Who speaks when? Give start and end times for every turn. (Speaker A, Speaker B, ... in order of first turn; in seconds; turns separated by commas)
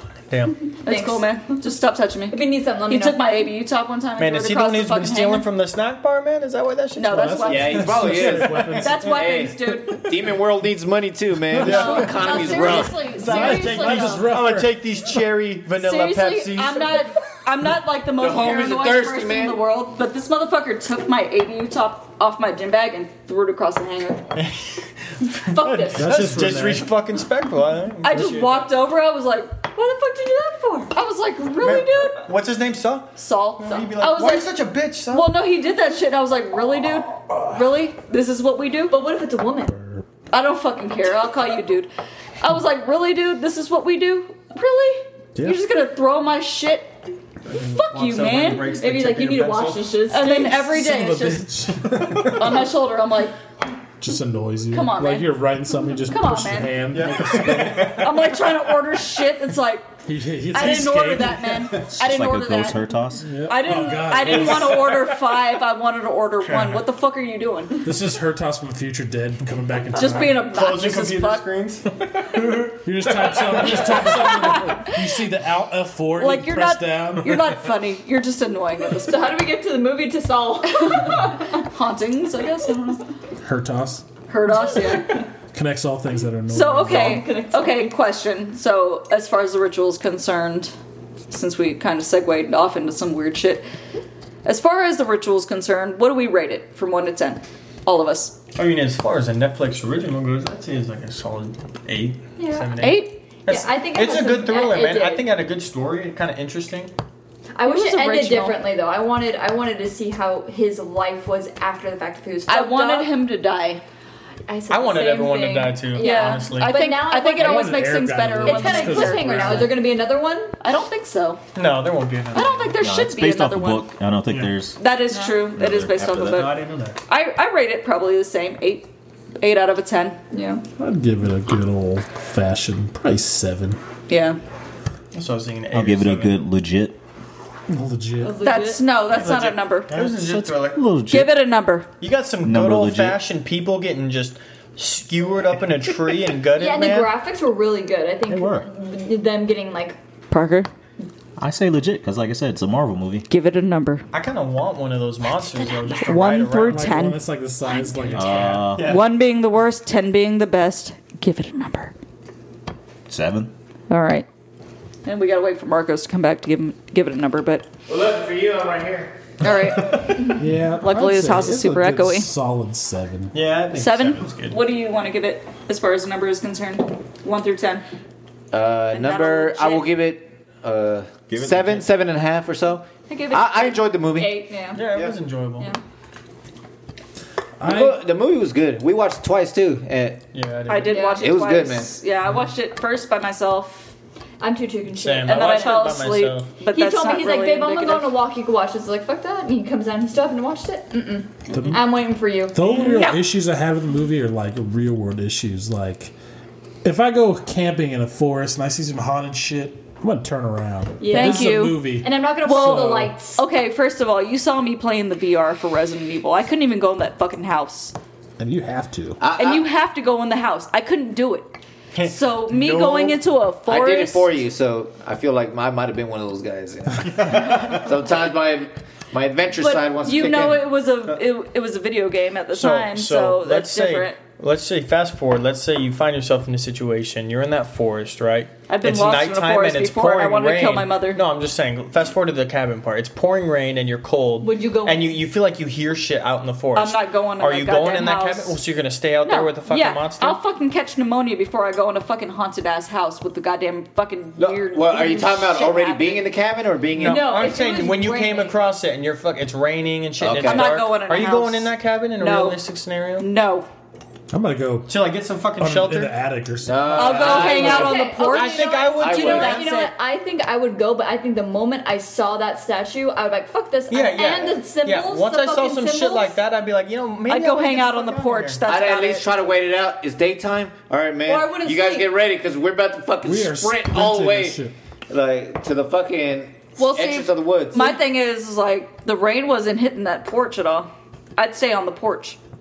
Speaker A: 0.3-0.6, Speaker B: 0.8-5.5, Speaker C: 0.8-1.4, Speaker C: 2.3-3.4, Speaker A: 4.2-9.0, Speaker B: 7.0-10.1, Speaker D: 7.0-9.0, Speaker E: 7.5-13.0, Speaker D: 11.5-12.0, Speaker A: 11.6-16.9, Speaker C: 11.6-14.2, Speaker B: 11.6-14.2, Speaker D: 13.2-14.8, Speaker B: 15.8-24.2, Speaker E: 18.2-19.6, Speaker A: 24.3-28.6, Speaker C: 25.5-26.1, Speaker D: 25.9-26.9, Speaker B: 28.0-29.7, Speaker C: 29.7-30.9, Speaker B: 30.9-32.2, Speaker A: 31.6-35.3, Speaker B: 33.2-34.5, Speaker B: 35.1-39.0, Speaker C: 38.9-39.7, Speaker D: 39.7-40.0, Speaker B: 40.3-41.9, Speaker B: 42.4-46.9, Speaker D: 45.3-45.6, Speaker A: 47.5-50.0, Speaker B: 47.5-48.8, Speaker C: 48.8-50.6, Speaker B: 50.1-51.5, Speaker D: 50.6-52.6, Speaker A: 52.1-52.5, Speaker B: 52.2-53.4, Speaker D: 54.0-58.1, Speaker B: 54.7-55.3, Speaker B: 56.0-56.9, Speaker A: 56.9-58.4, Speaker B: 57.5-59.9, Speaker D: 60.0-61.7, Speaker B: 60.5-62.9, Speaker F: 61.8-63.3, Speaker D: 63.2-65.1, Speaker B: 63.4-67.9, Speaker A: 64.3-64.7, Speaker A: 66.4-66.8, Speaker D: 67.8-70.4, Speaker B: 69.9-71.5, Speaker A: 70.0-74.0, Speaker D: 72.4-77.6, Speaker B: 73.8-75.1, Speaker B: 76.2-79.4, Speaker C: 79.0-81.6, Speaker B: 80.9-83.0, Speaker D: 83.4-84.0, Speaker B: 84.3-85.2, Speaker D: 85.5-87.2, Speaker B: 86.5-90.7, Speaker C: 86.9-87.9, Speaker B: 91.3-93.6, Speaker B: 94.4-98.4, Speaker A: 98.5-106.9, Speaker C: 102.4-102.8, Speaker B: 102.8-103.2, Speaker C: 103.5-105.2, Speaker C: 107.5-113.1, Speaker B: 107.7-108.6, Speaker B: 112.5-113.8, Speaker C: 114.5-117.8, Speaker A: 114.7-116.8, Speaker B: 116.0-119.9, Speaker D: 117.3-119.8, Speaker C: 118.4-120.6, Speaker B: 120.6-121.4, Speaker A: 121.5-122.7, Speaker B: 122.3-123.9, Speaker F: 122.7-124.8, Speaker B: 124.8-128.9, Speaker C: 125.1-125.5, Speaker F: 125.5-126.5, Speaker A: 126.2-127.0, Speaker B: 129.4-130.2, Speaker C: 130.3-130.6, Speaker D: 130.8-133.8, Speaker B: 134.1-134.4, Speaker A: 135.1-136.3, Speaker F: 135.7-137.0, Speaker D: 137.7-138.4, Speaker C: 138.2-138.8, Speaker B: 138.4-140.1, Speaker A: 139.1-140.8, Speaker F: 140.0-141.5, Speaker B: 141.1-141.9, Speaker A: 142.0-147.1, Speaker F: 142.4-143.2, Speaker C: 146.5-150.0, Speaker F: 148.3-148.7, Speaker B: 150.3-150.7, Speaker F: 151.4-153.3, Speaker B: 153.3-154.0, Speaker A: 154.1-157.0, Speaker B: 155.6-157.2, Speaker D: 156.6-158.7, Speaker F: 158.1-159.0, Speaker A: 158.4-159.1, Speaker B: 158.8-161.9, Speaker F: 163.1-163.5, Speaker B: 163.9-164.2, Speaker B: 165.0-167.7, Speaker E: 167.9-169.1, Speaker B: 169.4-172.3, Speaker D: 170.2-173.3, Speaker A: 173.3-174.6, Speaker B: 173.7-177.8, Speaker E: 178.5-185.1, Speaker B: 178.9-179.9, Speaker F: 181.3-181.9, Speaker B: 183.1-183.9, Speaker C: 184.2-184.8, Speaker A: 184.7-185.7, Speaker D: 187.6-188.0, Speaker E: 187.6-190.2, Speaker A: 190.3-191.1, Speaker B: 190.7-193.9, Speaker C: 190.9-191.3, Speaker E: 191.2-191.9, Speaker C: 194.4-195.8, Speaker A: 194.9-196.5, Speaker B: 195.2-198.2, Speaker C: 196.7-202.8, Speaker D: 201.5-201.9, Speaker D: 202.5-206.1, Speaker B: 202.8-203.2, Speaker D: 206.8-213.1, Speaker C: 211.0-213.4, Speaker B: 211.1-211.8, Speaker B: 212.4-217.9, Speaker D: 218.4-219.2, Speaker E: 219.2-219.7, Speaker B: 219.3-224.3, Speaker A: 221.9-223.2, Speaker E: 223.7-230.6, Speaker B: 229.6-234.2, Speaker A: 232.5-250.4, Speaker B: 238.7-241.2, Speaker C: 244.4-245.2, Speaker B: 246.7-248.6, Speaker B: 249.2-256.3, Speaker E: 254.4-257.4, Speaker A: 256.9-263.3, Speaker C: 257.0-258.6, Speaker E: 260.2-260.8, Speaker B: 260.4-262.6, Speaker B: 263.2-263.7, Speaker D: 264.3-264.9, Speaker A: 264.9-266.1, Speaker D: 265.6-267.4, Speaker E: 266.6-268.2, Speaker B: 266.9-269.9, Speaker A: 267.2-269.6, Speaker C: 267.3-276.4, Speaker E: 269.0-269.7, Speaker A: 273.9-278.6, Speaker B: 277.3-279.2, Speaker E: 278.6-288.0, Speaker C: 281.2-282.1, Speaker D: 283.2-284.7, Speaker B: 286.8-292.4